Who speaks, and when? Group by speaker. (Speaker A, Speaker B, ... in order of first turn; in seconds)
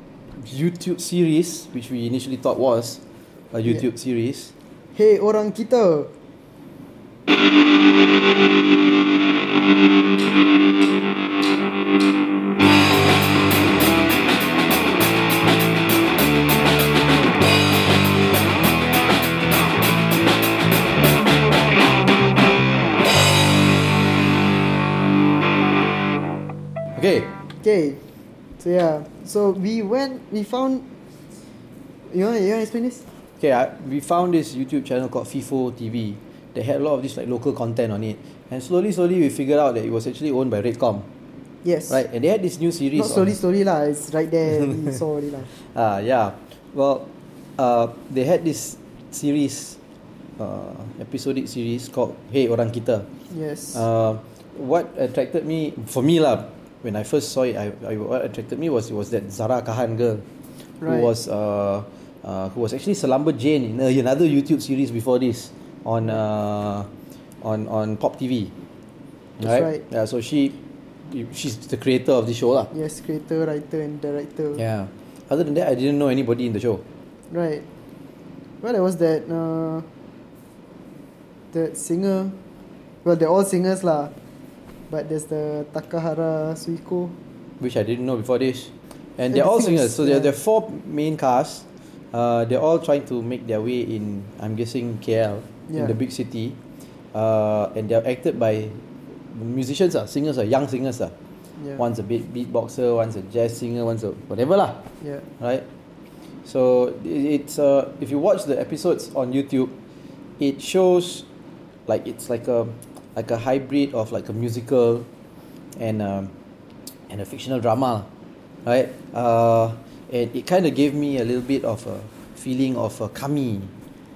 Speaker A: 0.3-3.0, 3.5-4.5, 26.9-27.3, 33.4-41.0, 41.9-43.3, 45.5-47.0, 47.6-49.8, 50.4-53.1, 53.7-66.9, 67.4-68.5, 69.4-70.5, 71.0-72.7, 74.5-76.8, 87.6-96.5, 97.1-101.1, 101.8-104.8, 105.4-105.6, 106.4-109.7, 110.4-111.2, 111.9-115.1, 115.8-116.3, 117.1-118.1, 118.6-123.7
Speaker B: 4.9-6.1, 27.6-28.0, 28.6-30.8, 32.1-33.0, 41.6-42.0, 42.9-45.5, 53.3-53.8, 60.8-61.1, 69.4-69.8, 72.7-74.6, 77.3-77.6, 78.6-79.8, 81.5-82.3, 83.0-84.1, 84.9-87.1, 89.3-90.3, 95.7-95.9, 105.0-105.2